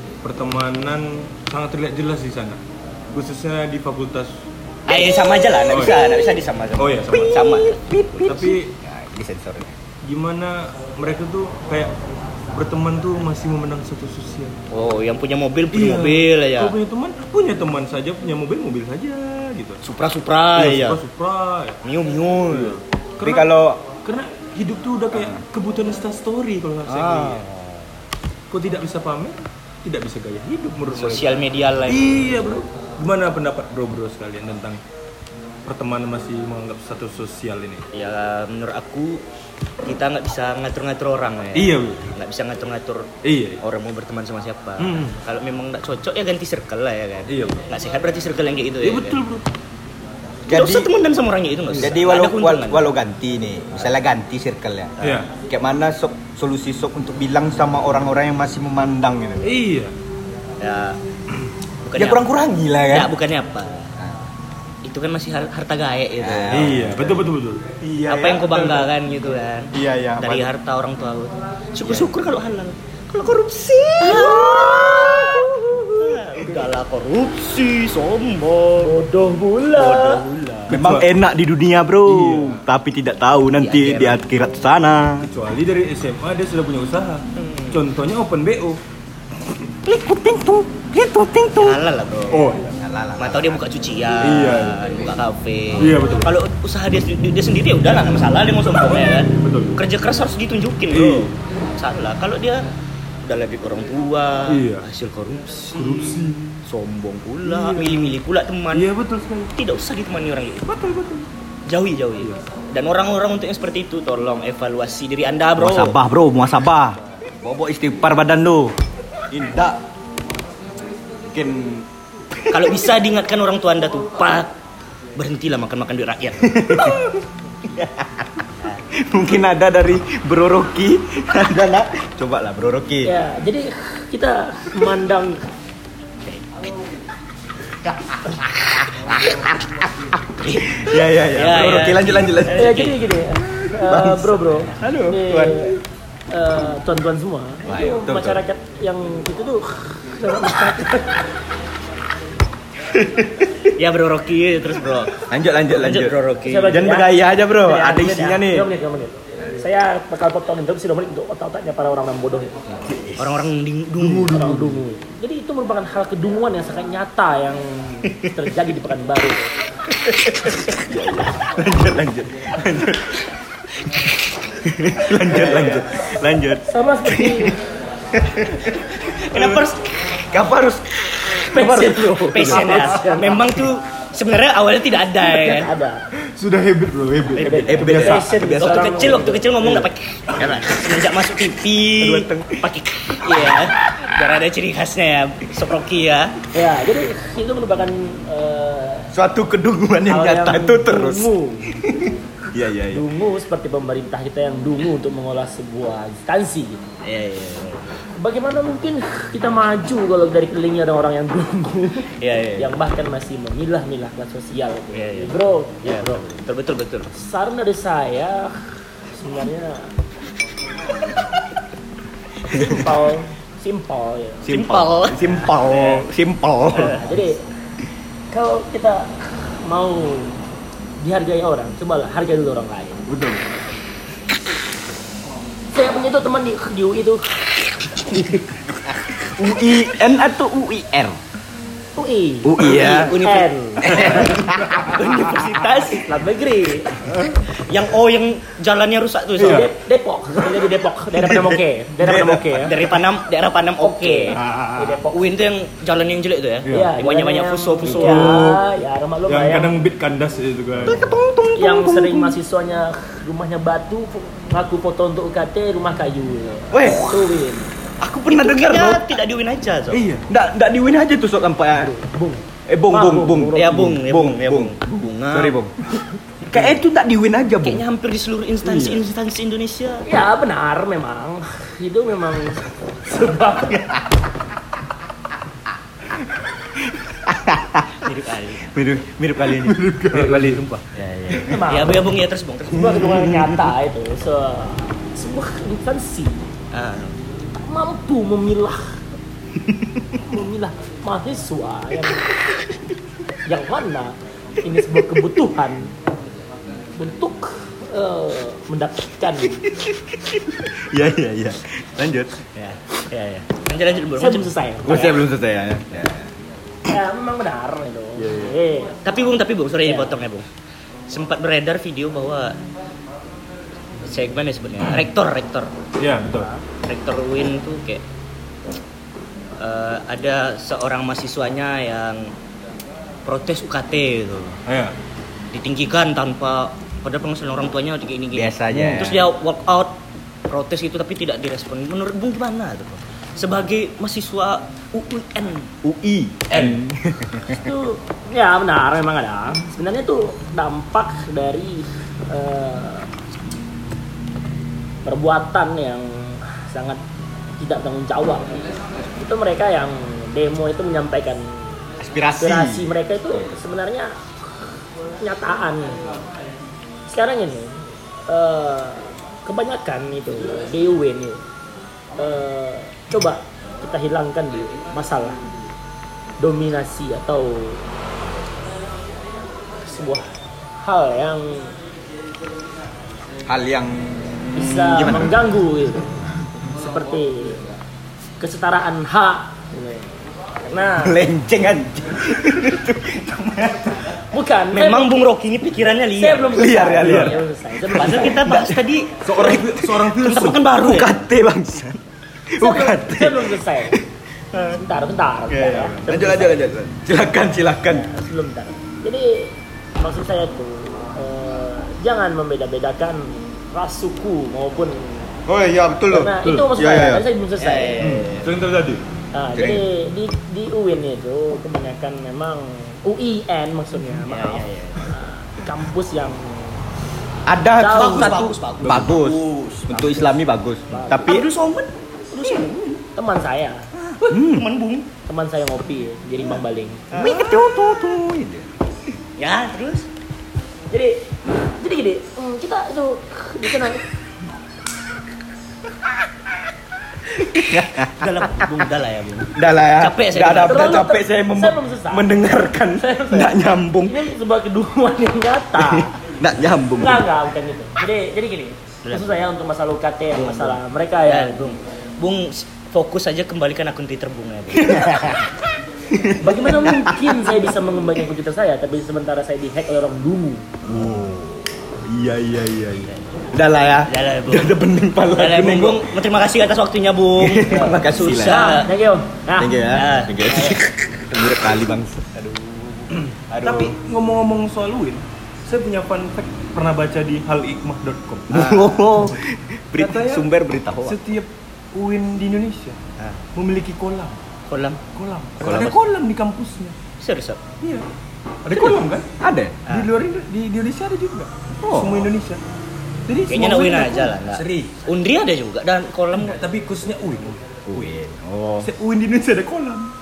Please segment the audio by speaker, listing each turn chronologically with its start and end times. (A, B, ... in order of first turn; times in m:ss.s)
0:00.2-0:04.4 A
0:04.9-0:08.5 B
0:05.7-0:06.2 A
0:05.7-0:06.3 C
0:06.8-0:07.4 A
0:07.1-0:09.7 C
0:08.2-0:08.7 A
0:10.0-0:11.9 A
0:12.5-0:14.6 A
0:14.7-0:16.8 B
0:15.7-0:19.8 A
0:19.8-0:21.0 B
0:20.5-0:21.8 A
0:21.8-0:22.8 B
0:22.5-0:27.4 A
0:23.2-0:23.8 C
0:25.1-0:25.4 C
0:26.8-0:28.0 B
0:28.5-0:34.8 A
0:30.9-0:32.1 B
0:35.6-0:37.8 A
0:37.9-0:39.2 B
0:39.8-0:49.2 B
0:41.5-0:42.1 A
0:43.2-0:43.6 A
0:44.8-0:45.1 A
0:47.3-0:47.6 A
0:48.8-0:49.4 A
0:50.5-0:50.9 C
0:50.5-0:52.9 B
0:51.7-0:59.5 C
0:55.0-0:55.3 A
0:59.4-0:59.9 A
1:00.6-1:01.0 B
1:01.8-1:02.2 B
1:02.0-1:03.1 C
1:02.9-1:04.0 B
1:04.8-1:07.0 B
1:06.2-1:07.2 C
1:06.5-1:07.6 A
1:07.8-1:08.9 C
1:08.1-1:18.9 B
1:09.7-1:10.5 C
1:11.8-1:12.1 C
1:13.6-1:16.4 C
1:14.1-1:15.2 D
1:18.8-1:20.2 D
1:19.7-1:20.8 B
1:20.7-1:21.1 A
1:20.7-1:25.3 C
1:22.0-1:22.6 A
1:23.6-1:24.2 B
1:25.2-1:28.8 A
1:27.4-1:27.8 B
1:29.8-1:31.8 C
1:31.6-1:32.5 B
1:32.3-1:32.8 A
1:32.7-1:33.6 C
1:33.2-1:42.6 B
1:34.2-1:34.8 A
1:35.8-1:36.3 A
1:39.0-1:39.8 A
1:40.9-1:41.3 A
1:43.2-1:48.9 B
1:44.5-1:44.8 A
1:45.7-1:46.6 A
1:47.4-1:48.2 A
1:48.7-1:49.5 A
1:49.5-1:50.8 B
1:50.7-1:51.2 A
1:51.7-1:56.0 B
1:55.6-1:58.7 C
1:59.3-1:59.8 C
2:01.3-2:02.9 C
2:02.5-2:04.5 B
2:05.2-2:07.0 B
2:06.5-2:13.1 C
2:13.0-2:15.4 D
2:17.8-2:22.9 C
2:20.4-2:23.0 B
2:22.5-2:25.8 D
2:23.5-2:25.8 C
2:26.3-2:31.2 D
2:27.6-2:28.4 C
2:32.8-2:33.7 C
2:33.8-2:36.8 B
2:35.2-2:38.7 C
2:36.4-2:42.6 D
2:42.8-2:43.4 C
2:43.2-2:44.6 B
2:44.0-2:44.8 A
2:44.3-2:49.5 D
2:50.0-2:57.6 C
2:55.3-2:55.7 D
2:56.6-2:57.6 D
2:58.1-2:59.6 C
2:59.1-3:00.2 B
3:00.3-3:03.0 C
3:01.5-3:03.4 D
3:01.7-3:05.7 B
3:05.2-3:06.0 D
3:06.3-3:08.0 A
3:07.3-3:10.7 C
3:07.4-3:09.5 D
3:07.4-3:16.3 B
3:12.0-3:12.7 C
3:13.2-3:13.7 C
3:16.5-3:19.1 D
3:19.1-3:23.0 C
3:20.1-3:21.7 D
3:22.9-3:26.8 D
3:27.0-3:28.0 B
3:28.2-3:36.2 D
3:32.2-3:32.7 B
3:34.9-3:37.1 B
3:37.1-3:38.5 D
3:39.1-3:39.9 D
3:42.5-3:43.0 C
3:42.5-3:44.5 D
3:44.4-3:47.0 C
3:44.5-3:46.0 B
3:46.7-3:47.4 D
3:48.3-3:50.4 D
3:51.0-3:53.0 D
3:55.7-3:58.4 D
3:59.0-4:01.2 C
4:02.0-4:04.2 D
4:02.4-4:03.2 C
4:02.6-4:06.1 B
4:03.8-4:05.4 C
4:05.9-4:07.0 D
4:07.4-4:09.7 B
4:09.4-4:09.7 A
4:09.4-4:12.8 D
4:11.1-4:12.8 C
4:12.6-4:14.4 B
4:13.8-4:15.2 D
4:14.4-4:14.7 A
4:15.1-4:18.5 B
4:16.6-4:16.9 A
4:16.7-4:19.8 D
4:17.8-4:18.6 A
4:19.3-4:21.1 A
4:20.8-4:22.4 C
4:21.6-4:27.7 D
4:26.7-4:27.4 C
4:28.0-4:29.1 C
4:28.3-4:30.0 B
4:29.9-4:30.2 A
4:30.3-4:31.9 C
4:31.8-4:33.8 D
4:32.7-4:34.8 C
4:33.5-4:35.6 B
4:35.3-4:35.7 C
4:36.5-4:37.8 C
4:36.5-4:36.8 A
4:37.6-4:40.1 B
4:38.6-4:39.0 A
4:40.0-4:44.0 D
4:46.1-4:50.6 C
4:48.0-4:48.7 B
4:49.5-4:50.8 A
4:51.0-4:53.0 B
4:51.2-4:51.7 C
4:51.4-4:52.0 D
4:52.7-4:56.5 D
4:52.8-4:53.7 C
4:56.7-4:57.2 B
4:57.6-4:59.0 D
4:59.7-5:00.0 C
5:00.2-5:02.2 D
5:03.4-5:05.9 D
5:04.8-5:05.4 C
5:07.0-5:09.6 D
5:09.6-5:12.4 C
5:12.5-5:14.5 B
5:14.2-5:15.2 D
5:14.8-5:16.3 C
5:16.9-5:19.0 D
5:18.2-5:18.5 C
5:19.0-5:20.5 B
5:19.8-5:20.1 D
5:21.1-5:22.6 B
5:24.0-5:25.7 B
5:26.0-5:26.5 A
5:26.3-5:26.6 D
5:26.8-5:28.0 B
5:29.6-5:32.3 B
5:33.2-5:34.6 B
5:34.7-5:34.9 A
5:35.5-5:45.7 B
5:38.3-5:39.3 C
5:45.8-5:47.7 C
5:46.5-5:46.8 A
5:47.5-5:53.1 D
5:55.0-5:57.0 D
5:57.6-6:01.4 D
6:02.0-6:02.9 C
6:02.4-6:04.1 D
6:05.2-6:06.1 D
6:07.1-6:11.4 D
6:12.2-6:15.4 D
6:16.4-6:17.8 D
6:19.8-6:21.7 D
6:23.4-6:25.4 C
6:24.6-6:27.6 D
6:28.4-6:31.2 D
6:31.0-6:34.2 C
6:34.3-6:35.1 D
6:34.7-6:36.9 B
6:36.2-6:38.4 D
6:36.5-6:40.1 C
6:37.0-6:37.3 A
6:37.9-6:41.2 B
6:39.2-6:40.6 A
6:40.8-6:44.0 C
6:42.6-6:44.0 D
6:44.7-6:46.6 D
6:45.5-6:48.1 C
6:47.9-6:55.4 D
6:55.5-6:57.3 C
6:56.1-6:58.2 D
6:56.4-6:56.7 A
6:57.6-6:58.5 B
6:58.0-6:59.0 A
6:59.3-7:06.8 D
6:59.5-6:59.8 C
7:04.3-7:05.1 B
7:07.5-7:11.5 C
7:07.8-7:08.4 D
7:07.9-7:10.2 B
7:08.8-7:09.6 A
7:10.9-7:11.4 D
7:11.1-7:13.0 B
7:13.1-7:13.9 D
7:14.0-7:15.1 B
7:14.3-7:14.7 C
7:15.2-7:17.0 D
7:17.1-7:17.6 B
7:17.1-7:18.7 C
7:19.4-7:20.1 B
7:20.9-7:24.1 D
7:27.3-7:28.8 C
7:28.2-7:31.1 B
7:29.5-7:34.2 C
7:30.7-7:36.1 D
7:35.8-7:37.2 C
7:37.0-7:41.7 D
7:39.0-7:39.4 B
7:40.3-7:45.3 B
7:44.8-7:47.7 C
7:46.4-7:50.7 D
7:50.8-7:56.1 C
7:53.1-7:53.5 B
7:54.0-7:54.8 B
7:55.3-7:58.9 B
7:57.4-7:58.8 C
7:58.4-8:00.0 D
7:59.6-8:04.0 C
7:59.9-8:00.8 B
8:03.1-8:08.6 A
8:08.5-8:11.2 C
8:08.5-8:09.0 B
8:10.0-8:10.5 A
8:11.0-8:13.0 A
8:13.5-8:14.4 A
8:14.7-8:15.0 B
8:15.1-8:17.0 A
8:15.6-8:16.0 B
8:15.6-8:15.9 C
8:17.2-8:17.6 B
8:17.8-8:18.1 A
8:18.6-8:19.3 A
8:19.4-8:19.8 C
8:19.8-8:20.1 B
8:19.9-8:22.6 A
8:21.7-8:22.3 C
8:23.2-8:25.0 A
8:23.5-8:26.6 B
8:26.3-8:27.6 A
8:27.9-8:28.9 C
8:28.8-8:30.1 A